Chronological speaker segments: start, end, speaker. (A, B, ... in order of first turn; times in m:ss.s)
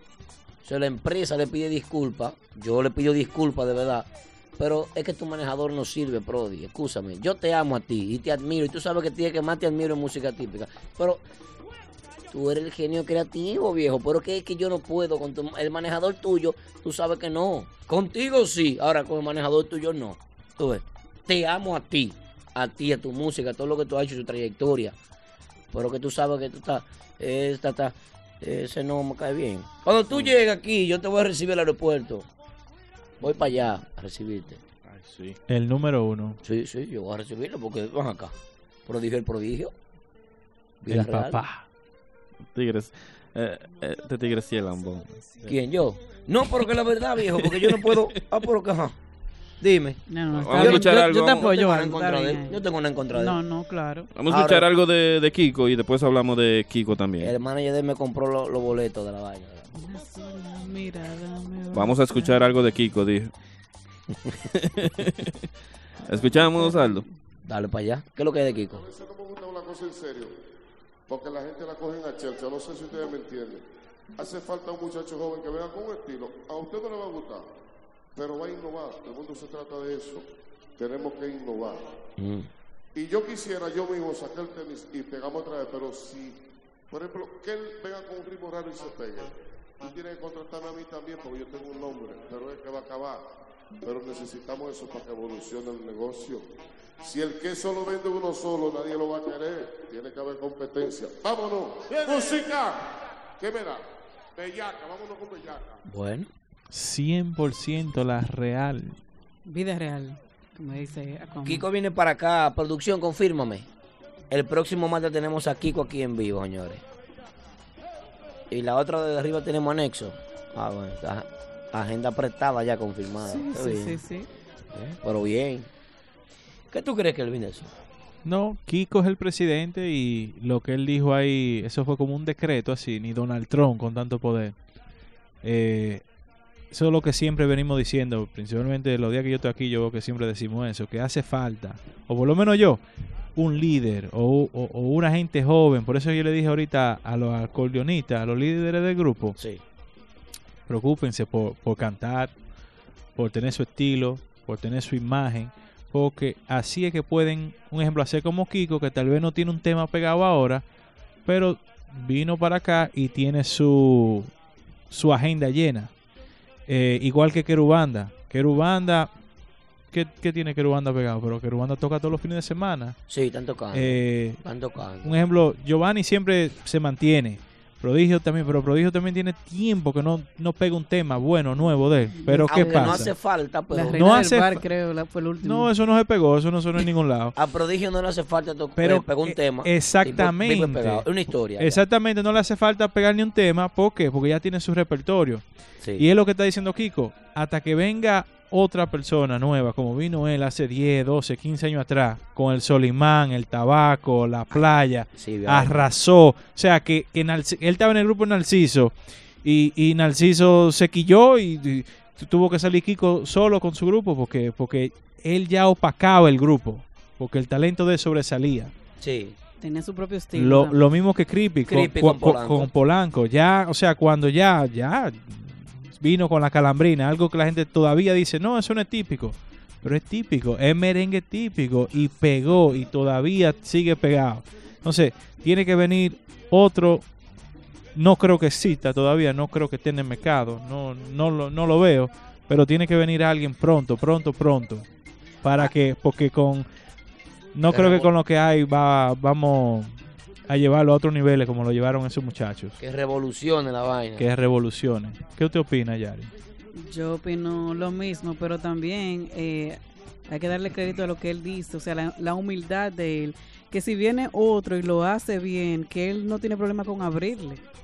0:00.6-0:11.2 A
0:12.3-0:25.0 A
0:25.7-0:32.3 A
0:33.2-0:34.6 A
0:34.9-0:35.4 B
0:35.5-0:36.4 C
0:36.4-0:38.3 A
0:38.9-0:39.8 A
0:40.8-0:41.4 A
0:40.9-0:41.6 C
0:42.5-0:45.5 B
0:45.5-0:49.0 A
0:47.3-0:48.1 B
0:49.6-0:53.4 A
0:50.1-0:54.1 D
0:50.4-0:51.5 B
0:54.2-0:57.4 B
0:54.3-0:54.7 A
0:57.2-0:59.7 A
0:59.7-1:02.4 D
1:01.7-1:03.3 B
1:04.6-1:05.3 B
1:06.1-1:07.0 B
1:06.4-1:07.1 D
1:07.4-1:08.8 A
1:08.6-1:10.3 E
1:11.1-1:13.6 E
1:14.2-1:17.5 E
1:18.2-1:20.3 E
1:20.8-1:21.9 E
1:22.2-1:22.5 A
1:23.0-1:26.4 E
1:26.9-1:33.3 E
1:33.8-1:36.5 E
1:37.0-1:43.8 E
1:44.4-1:45.8 E
1:45.9-1:46.3 A
1:46.7-1:49.0 C
1:49.5-1:51.6 D
1:51.4-1:53.7 A
1:54.3-1:56.8 A
1:58.5-2:04.0 A
2:03.2-2:04.3 D
2:04.7-2:05.7 A
2:06.7-2:07.7 A
2:08.2-2:14.6 C
2:15.4-2:16.0 C
2:16.7-2:22.8 C
2:23.4-2:29.4 C
2:29.4-2:29.6 A
2:30.7-2:32.3 C
2:33.2-2:40.6 C
2:41.3-2:44.3 C
2:44.9-2:45.9 C
2:46.7-2:49.1 C
2:49.9-2:53.0 C
2:53.1-2:55.1 A
2:53.7-2:54.4 C
2:55.0-3:03.1 C
3:02.1-3:03.1 D
3:02.5-3:04.0 A
3:03.7-3:05.7 D
3:03.9-3:04.6 C
3:05.4-3:07.4 C
3:07.4-3:11.8 A
3:08.8-3:11.1 C
3:11.6-3:15.4 C
3:16.0-3:38.7 C
3:25.2-3:25.8 A
3:39.0-3:39.4 A
3:39.6-3:40.8 D
3:40.4-3:57.1 C
3:41.7-3:42.7 A
3:58.0-4:04.9 C
4:05.4-4:06.7 C
4:07.6-4:12.8 C
4:07.7-4:08.1 A
4:12.8-4:14.3 A
4:14.2-4:16.3 C
4:16.7-4:27.6 D